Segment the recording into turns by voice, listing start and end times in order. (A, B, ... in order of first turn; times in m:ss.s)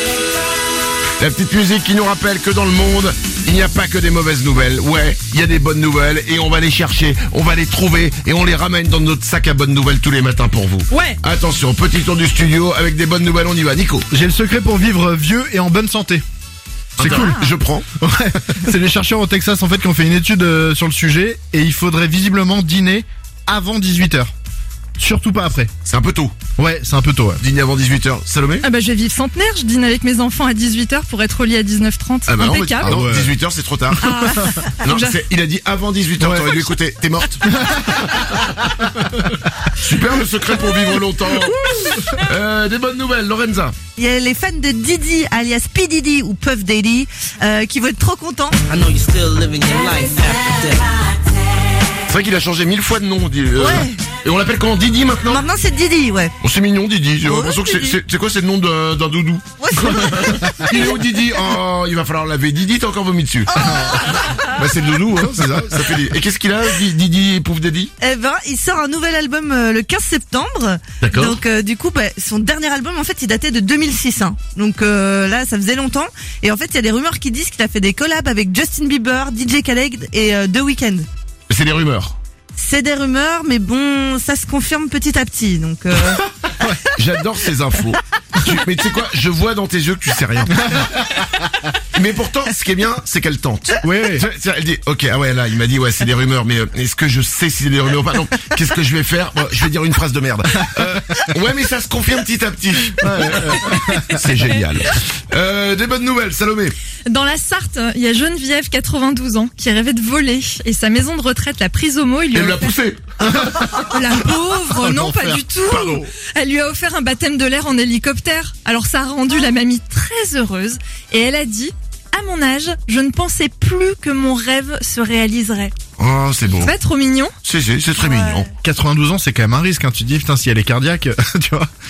0:01.2-0:14.0 A
0:10.9-0:11.2 B
0:14.1-0:16.2 C
0:17.0-0:17.4 C
0:17.0-0:17.8 A
0:17.1-0:17.5 B
0:18.0-0:24.3 C
0:25.0-0:25.7 C
0:25.8-0:26.4 A
0:26.6-0:27.4 C
0:27.4-0:28.7 A
0:28.6-0:33.0 B
0:32.3-0:34.2 A
0:32.8-0:33.3 C
0:34.0-0:35.2 B
0:34.8-0:37.4 A
0:36.2-0:36.5 C
0:37.4-0:38.1 C
0:39.0-0:39.3 C
0:39.8-0:43.8 A
0:44.0-0:48.6 D
0:48.7-0:50.9 E
0:52.1-0:55.4 A
0:53.6-0:54.0 D
0:55.2-0:56.4 D
0:56.4-1:03.5 A
0:57.2-0:58.0 D
0:59.6-1:01.0 D
1:03.5-1:04.5 D
1:04.3-1:07.9 A
1:08.0-1:21.1 D
1:11.0-1:11.4 A
1:21.5-1:22.2 A
1:22.6-1:26.2 D
1:26.9-1:30.6 A
1:30.6-1:31.2 C
1:31.9-1:46.8 A
1:33.8-1:34.2 C
1:43.0-1:44.2 C
1:47.1-1:52.7 B
1:52.3-1:53.0 A
1:53.2-1:53.9 C
1:53.6-2:05.7 B
1:54.7-1:55.9 C
1:55.7-1:56.0 A
2:06.0-2:06.7 A
2:06.5-2:07.3 B
2:07.4-2:08.5 A
2:08.6-2:11.7 C